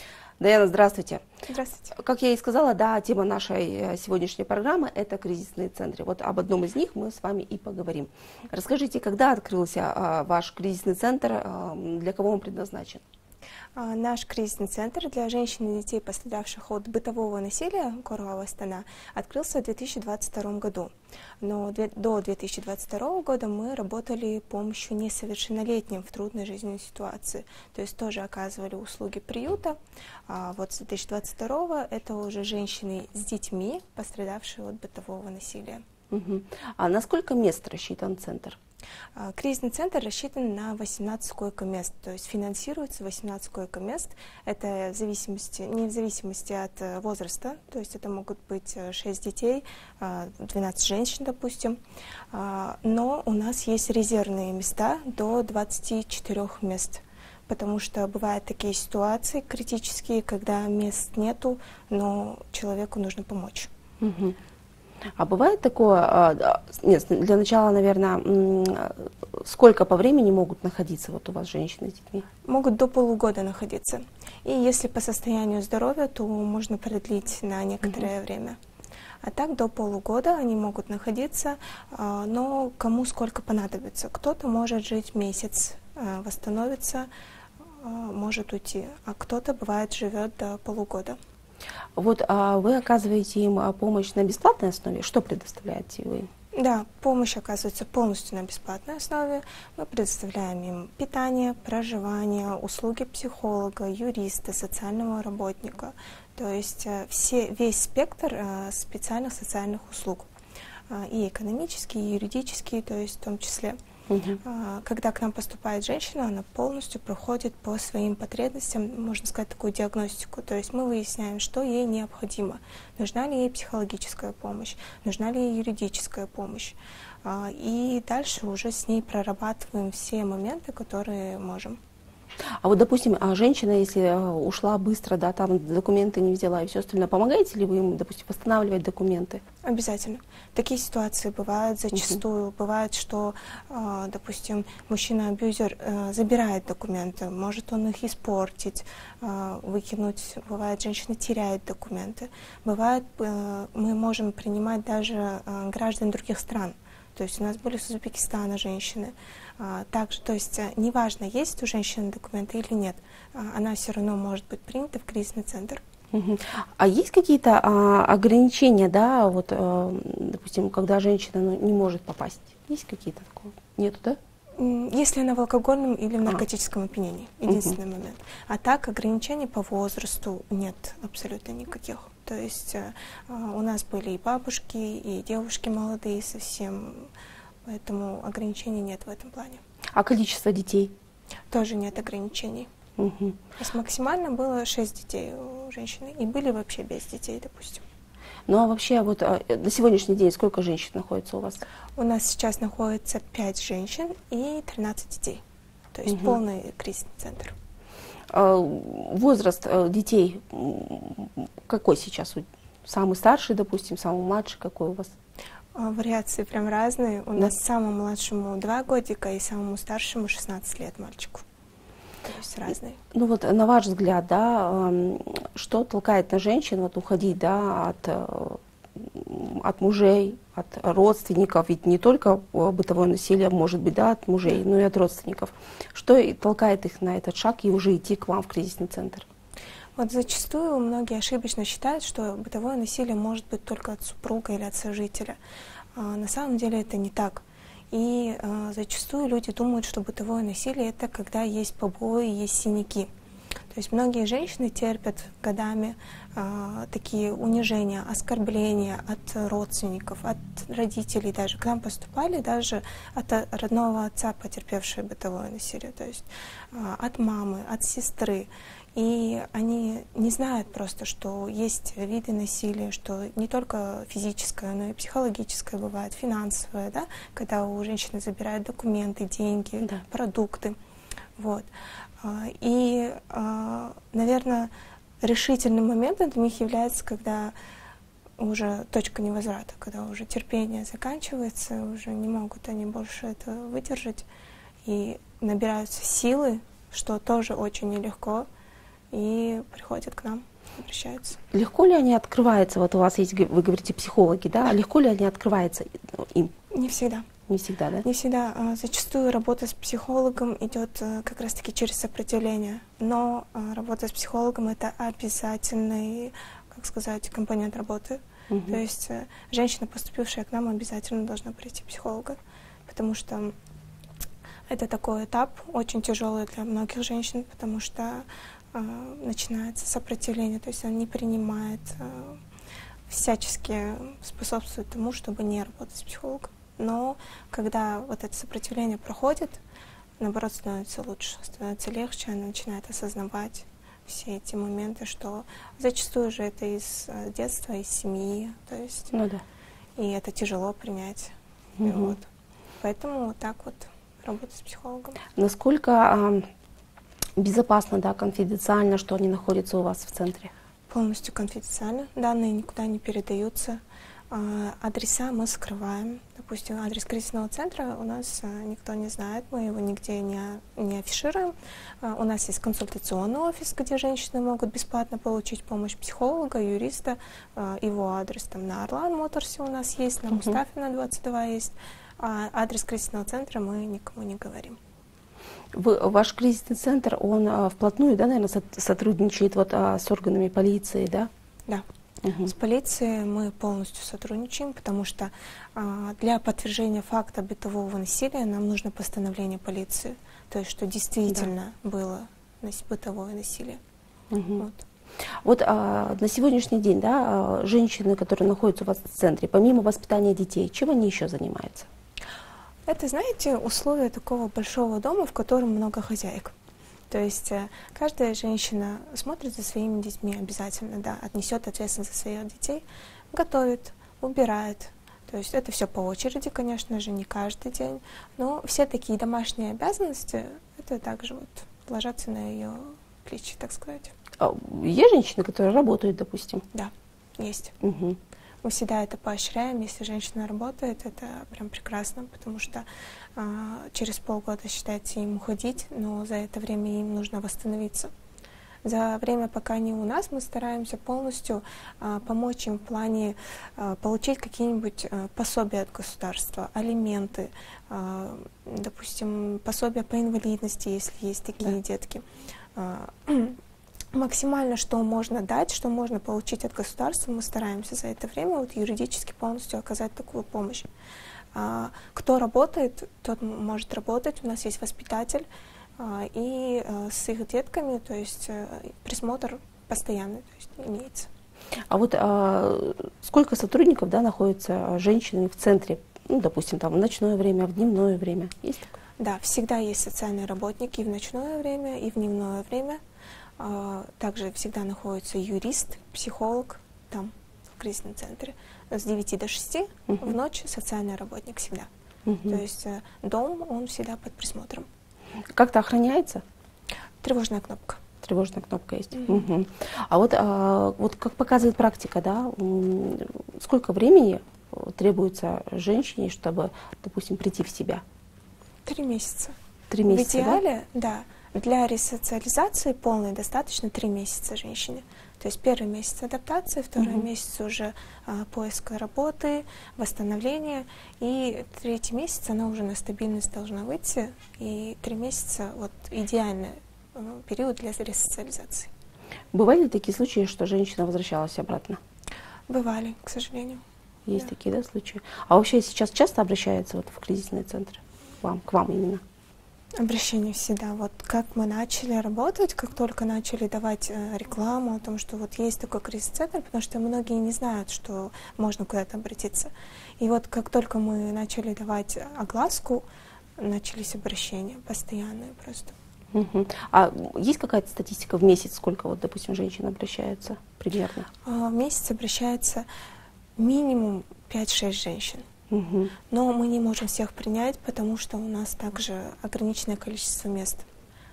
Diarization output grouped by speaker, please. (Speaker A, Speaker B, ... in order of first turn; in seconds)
Speaker A: 0.4-1.2, 1.9-13.0, 36.1-38.6, 64.0-64.3, 65.2-72.2, 92.0-96.3, 114.1-114.4, 132.6-139.4, 166.1-174.2, 177.5-177.8, 189.9-190.9, 193.0-193.4, 198.5-201.6, 206.1-206.3, 208.3-215.1, 223.1-239.2, 301.5-306.5, 307.5-308.1, 318.5-318.8, 349.1-349.4, 351.8-352.1, 355.4-356.5, 357.4-360.5, 385.7-391.3, 392.2-392.5, 404.3-404.6, 405.4-411.9, 434.4-436.7, 437.8-438.2, 481.9-488.9, 502.3-502.6, 505.6-506.4, 508.2-518.0, 519.9-520.6, 527.0-527.2, 539.5-542.0, 544.3-549.2, 566.3-571.3, 575.7-576.1
Speaker B: 1.5-1.9, 13.8-29.8, 30.3-35.8, 39.1-51.8, 52.3-63.7, 72.4-78.6, 79.2-87.1, 87.8-91.2, 96.5-110.3, 110.9-113.8, 114.4-131.8, 139.6-165.8, 174.6-187.1, 187.7-189.6, 191.5-192.7, 193.6-197.8, 201.9-205.4, 205.9-207.5, 215.8-221.4, 222.2-223.0, 240.0-245.4, 246.0-253.1, 253.7-280.8, 281.4-281.7, 282.2-284.7, 285.2-287.5, 288.4-294.2, 294.9-298.5, 299.1-301.4, 306.7-307.3, 308.0-323.5, 324.7-332.4, 333.1-339.6, 340.2-349.1, 350.0-352.2, 352.8-355.2, 360.9-363.8, 364.3-384.8, 392.4-403.8, 404.6-404.8, 412.9-416.5, 417.1-434.1, 436.7-437.8, 438.6-448.1, 448.9-462.2, 462.8-463.6, 464.1-470.9, 471.5-475.5, 476.0-481.3, 489.2-493.0, 493.6-501.9, 502.4-504.9, 507.2-508.0, 509.1-509.5, 518.9-519.5, 520.0-538.9, 542.7-543.8, 550.0-563.0, 563.6-565.9, 571.4-572.9, 573.6-575.5, 576.3-580.8